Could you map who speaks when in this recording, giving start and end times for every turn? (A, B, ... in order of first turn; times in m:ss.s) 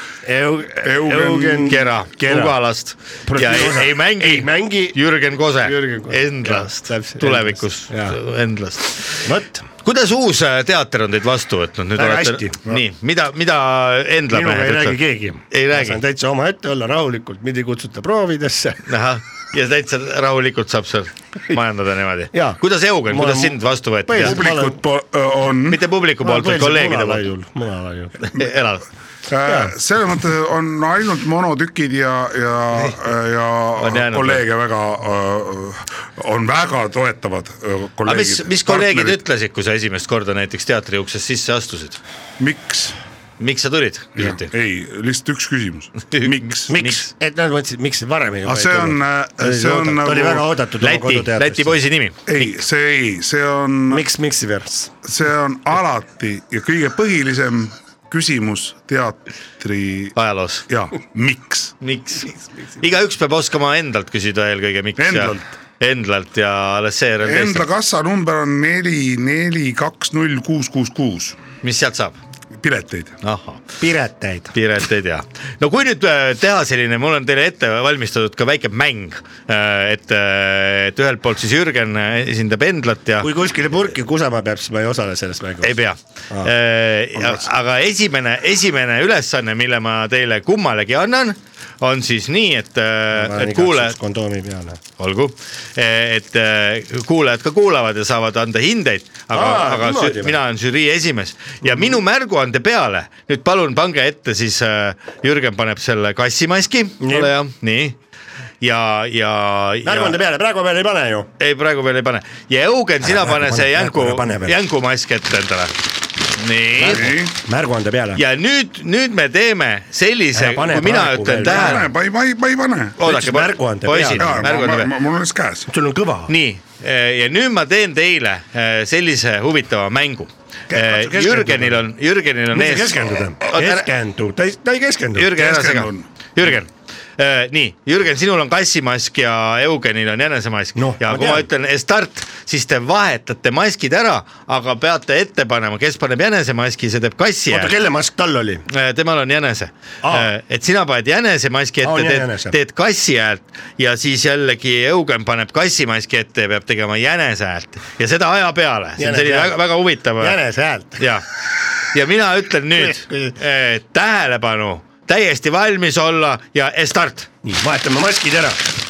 0:00.2-0:02.6 A
0:00.8-0:01.8 B
0:01.6-0:09.3 C
0:03.2-0:05.0 A
0:05.6-0:08.2 A
0:09.2-0:09.6 A
0:09.8-0:15.0 C
0:12.0-0:12.8 A
0:14.3-0:18.9 A
0:15.5-0:16.0 C
0:18.9-0:24.4 C
0:22.3-0:24.8 A
0:24.2-0:25.8 B
0:25.7-0:27.2 C
0:26.2-0:28.2 A
0:28.2-0:28.8 C
0:29.3-0:39.2 B
0:29.4-0:29.7 A
0:33.8-0:34.4 C
0:38.0-0:42.0 C
0:42.4-0:43.0 B
0:43.4-0:44.5 C
0:44.2-0:46.7 B
0:46.1-0:47.1 C
0:46.7-0:51.8 A
0:48.4-0:50.4 B
0:50.8-0:52.5 C
0:52.3-0:54.0 B
0:53.9-0:54.9 A
0:55.0-1:00.1 B
1:00.2-1:00.6 C
1:00.7-1:01.7 B
1:01.8-1:07.6 C
1:05.0-1:05.4 B
1:07.2-1:11.4 B
1:11.6-1:12.2 C
1:12.6-1:13.2 B
1:13.2-1:13.6 C
1:13.8-1:14.5 A
1:14.5-1:23.3 C
1:23.2-1:25.7 A
1:25.6-1:33.9 C
1:33.1-1:34.8 A
1:35.0-1:48.0 C
1:39.3-1:40.4 A
1:47.0-1:47.3 A
1:48.6-1:50.2 C
1:49.8-1:51.3 A
1:51.4-1:55.7 C
1:53.0-1:54.6 A
1:56.4-1:57.1 C
1:56.8-1:58.2 A
1:56.9-1:57.3 B
1:58.2-2:01.9 C
2:00.3-2:01.8 A
2:01.4-2:03.0 B
2:03.0-2:04.9 C
2:03.0-2:04.5 A
2:04.2-2:05.7 B
2:05.7-2:06.3 A
2:06.3-2:13.9 C
2:10.7-2:11.8 A
2:12.5-2:15.3 A
2:15.2-2:27.7 C
2:15.3-2:16.1 B
2:20.8-2:21.4 A
2:27.5-2:28.6 A
2:28.7-2:40.4 C
2:30.0-2:30.3 A
2:31.8-2:32.6 A
2:39.0-2:39.6 A
2:40.2-2:41.0 A
2:41.0-2:41.2 C
2:41.8-2:47.3 C
2:42.8-2:43.3 A
2:47.4-2:48.6 A